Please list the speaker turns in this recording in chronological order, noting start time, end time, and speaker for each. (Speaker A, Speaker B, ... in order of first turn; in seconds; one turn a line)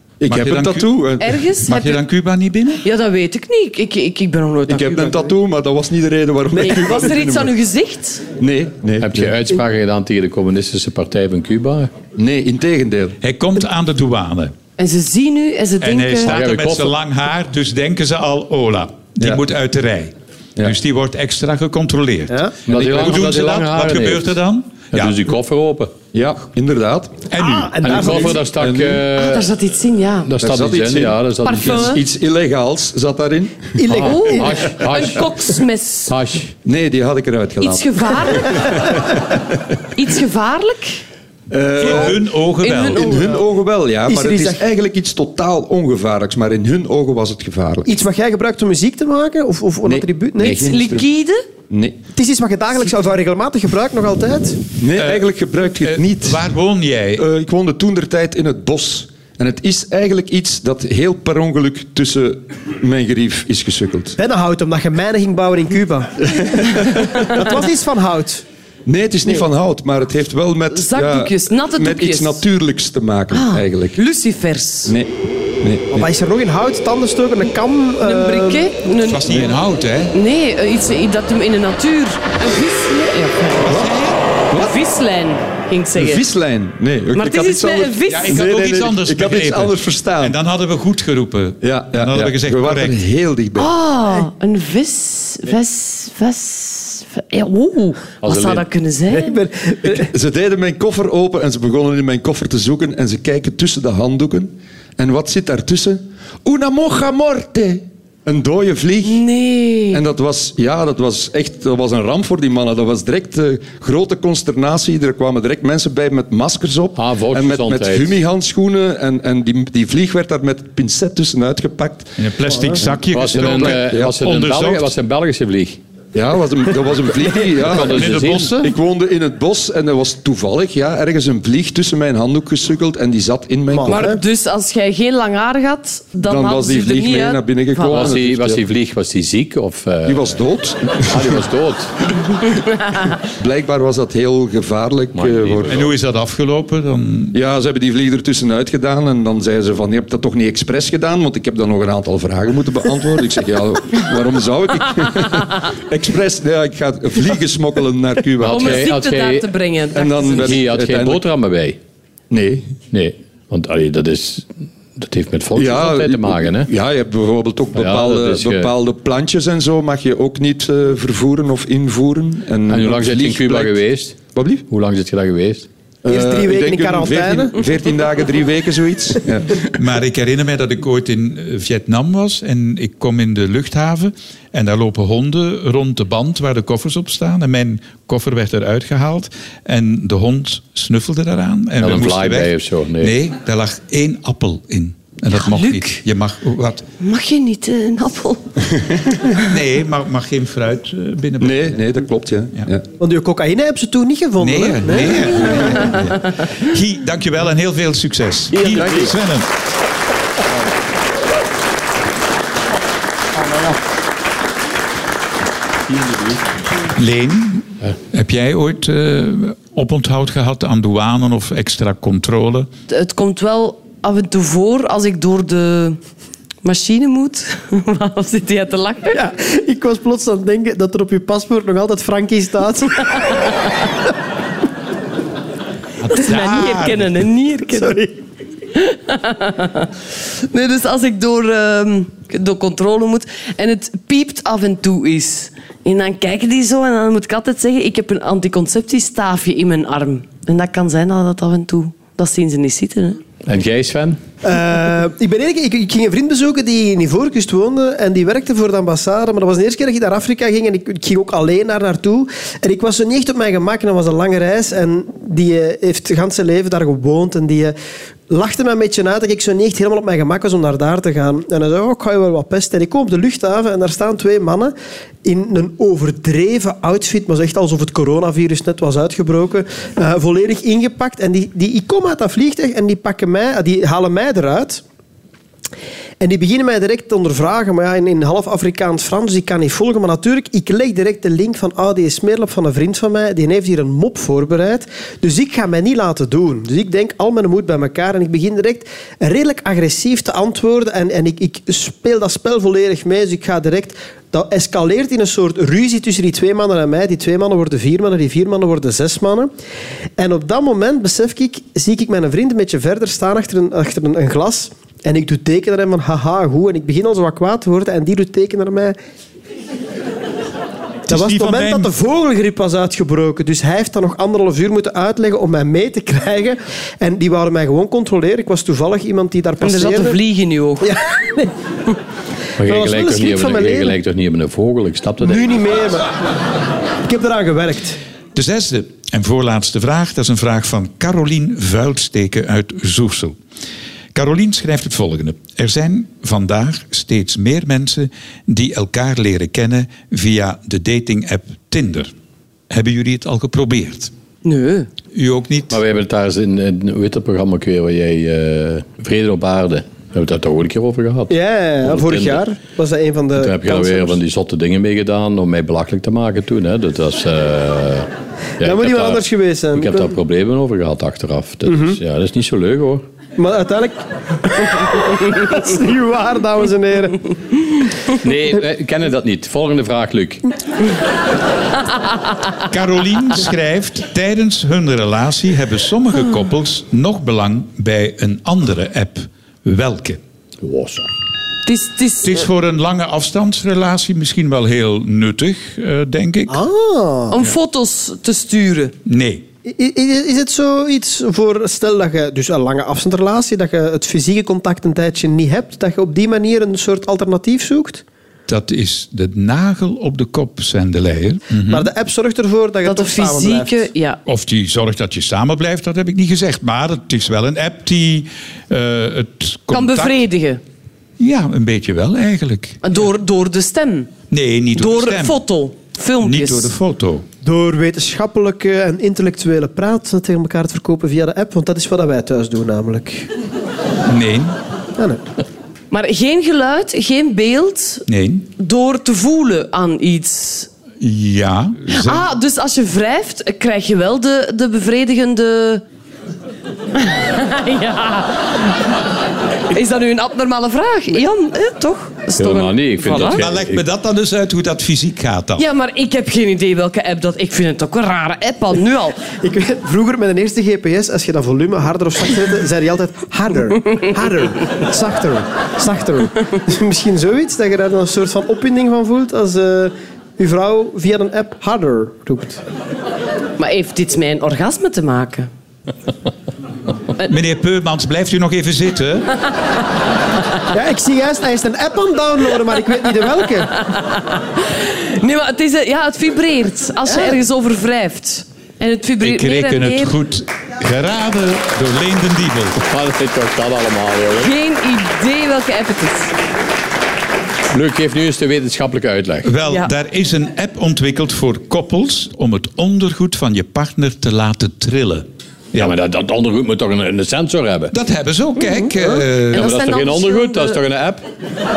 Speaker A: 0.2-1.4
Speaker B: 0.3-0.9
Speaker C: 1.2-2.0
Speaker B: 1.6-2.8
Speaker C: 2.8-5.3
Speaker A: 4.7-7.5
Speaker C: 6.5-8.2
Speaker A: 8.4-9.4
Speaker D: 9.0-11.9
Speaker A: 12.2-13.2
Speaker B: 13.2-14.5
Speaker C: 14.8-16.4
Speaker B: 15.8-25.2
Speaker D: 16.3-16.9
Speaker E: 22.3-22.6
Speaker D: 22.7-24.3
Speaker A: 22.7-23.2
Speaker D: 24.9-25.9
Speaker A: 26.1-27.3
Speaker B: 27.3-27.8
Speaker E: 27.4-28.4
Speaker D: 27.8-29.5
Speaker A: 28.0-29.1
Speaker C: 29.1-30.3
Speaker D: 30.2-32.0
Speaker A: 30.4-33.8
Speaker C: 31.4-32.0
Speaker E: 33.8-34.8
Speaker D: 33.9-35.3
Speaker C: 34.0-36.2
Speaker D: 36.1-36.5
Speaker A: 36.6-39.0
Speaker C: 37.6-38.9
Speaker C: 39.9-41.0
Speaker A: 41.5-42.2
Speaker B: 41.8-43.0
Speaker C: 41.8-43.4
Speaker A: 42.9-47.9
Speaker E: 44.1-44.6
Speaker E: 47.9-50.7
Speaker A: 49.9-51.1
Speaker C: 50.4-51.4
Speaker A: 51.7-52.0
Speaker E: 52.2-54.6
Speaker A: 54.8-56.5
Speaker B: 55.0-57.2
Speaker A: 57.2-64.2
Speaker E: 64.2-68.5
Speaker A: 66.4-67.0
Speaker A: 68.9-74.0
Speaker C: 70.7-72.4
Speaker C: 73.3-74.9
Speaker A: 74.9-76.1
Speaker E: 75.9-78.7
Speaker C: 78.0-79.5
Speaker B: 79.0-80.2
Speaker C: 80.1-83.8
Speaker B: 83.6-84.2
Speaker A: 84.5-84.8
Speaker C: 84.5-86.2
Speaker A: 85.9-90.4
Speaker C: 87.1-88.4
Speaker B: 88.1-93.0
Speaker A: 91.6-93.7
Speaker C: 93.6-99.4
Speaker D: 98.2-98.7
Speaker E: 99.1-100.1
Speaker A: 99.8-109.2
Speaker C: 109.0-110.0
Speaker A: 109.9-122.2
Speaker D: 117.0-118.2
Speaker B: 122.2-124.9
Speaker D: 123.1-125.8
Speaker A: 123.2-124.2
Speaker A: 126.1-134.2
Speaker D: 127.7-128.6
Speaker B: 127.8-128.7
Speaker E: 133.7-134.2
Speaker C: 133.9-138.1
Speaker A: 136.2-138.7
Speaker D: 137.9-140.3
Speaker A: 140.1-141.4
Speaker D: 141.1-141.9
Speaker A: 143.4-145.9
Speaker D: 145.1-145.8
Speaker B: 145.7-147.4
Speaker A: 147.3-159.0
Speaker D: 158.4-159.5
Speaker C: 158.4-160.6
Speaker A: 159.9-161.3
Speaker D: 160.4-161.8
Speaker A: 162.3-162.8
Speaker D: 162.9-166.7
Speaker A: 165.5-174.7
Speaker D: 167.7-168.7
Speaker D: 172.7-175.7
Speaker A: 176.0-179.7
Speaker E: 176.1-177.7
Speaker B: 179.8-196.9
Speaker D: 191.8-193.2
Speaker C: 195.3-196.0
Speaker C: 197.0-198.5
Speaker B: 199.4-201.8
Speaker A: 201.4-202.9
Speaker E: 203.0-206.0
Speaker B: 204.4-209.5
Speaker A: 208.7-209.1
Speaker B: 216.9-222.7
Speaker C: 222.9-226.0
Speaker C: 226.6-229.2
Speaker E: 229.1-233.4
Speaker B: 236.0-237.2
Speaker C: 236.1-238.0
Speaker E: 237.8-238.1
Speaker C: 238.7-239.9
Speaker C: 240.5-253.2
Speaker D: 253.5-254.2
Speaker E: 254.4-267.8
Speaker E: 268.3-274.7
Speaker E: 275.2-284.8
Speaker E: 286.2-309.5
Speaker E: 310.2-319.0
Speaker B: 321.1-321.9
Speaker E: 321.1-330.2
Speaker C: 329.6-330.9
Speaker E: 330.8-331.5
Speaker D: 332.6-335.6
Speaker E: 332.6-334.0
Speaker E: 335.2-336.1
Speaker E: 337.0-338.0
Speaker B: 338.3-343.4
Speaker B: 344.1-352.1
Speaker B: 352.7-354.1
Speaker C: 354.4-354.9
Speaker B: 355.1-355.8
Speaker D: 355.7-362.4
Speaker E: 361.3-364.2
Speaker D: 363.3-368.1
Speaker E: 368.6-370.2
Speaker D: 368.6-373.0
Speaker E: 371.7-372.0
Speaker E: 373.4-377.8
Speaker D: 378.2-380.4
Speaker B: 382.7-390.2
Speaker D: 390.6-391.1
Speaker C: 391.7-392.5
Speaker B: 392.2-396.6
Speaker E: 396.5-397.4
Speaker C: 397.3-398.9
Speaker B: 399.1-399.4
Speaker E: 399.7-408.0
Speaker B: 408.5-411.9
Speaker E: 411.7-413.9
Speaker C: 412.9-414.2
Speaker B: 414.3-420.3
Speaker C: 419.7-420.6
Speaker B: 421.2-422.8
Speaker C: 422.8-424.1
Speaker B: 424.3-425.4
Speaker C: 424.8-426.7
Speaker B: 426.2-427.3
Speaker E: 427.4-433.3
Speaker B: 434.1-434.6
Speaker E: 435.0-435.2
Speaker C: 435.9-438.1
Speaker B: 438.1-438.5
Speaker C: 438.6-440.7
Speaker B: 441.0-442.2
Speaker C: 441.9-445.8
Speaker C: 447.0-448.8
Speaker C: 449.7-453.4
Speaker D: 452.4-453.8
Speaker B: 453.3-455.6
Speaker C: 455.6-459.2
Speaker E: 459.4-472.6
Speaker C: 473.6-475.5
Speaker B: 477.2-479.3
Speaker E: 480.7-483.7
Speaker C: 483.9-490.1
Speaker B: 489.2-492.8
Speaker D: 492.9-494.5
Speaker C: 494.4-496.3
Speaker D: 497.7-499.5
Speaker B: 499.4-505.9
Speaker D: 505.8-507.9
Speaker B: 507.9-509.7
Speaker C: 508.9-510.8
Speaker D: 509.5-511.2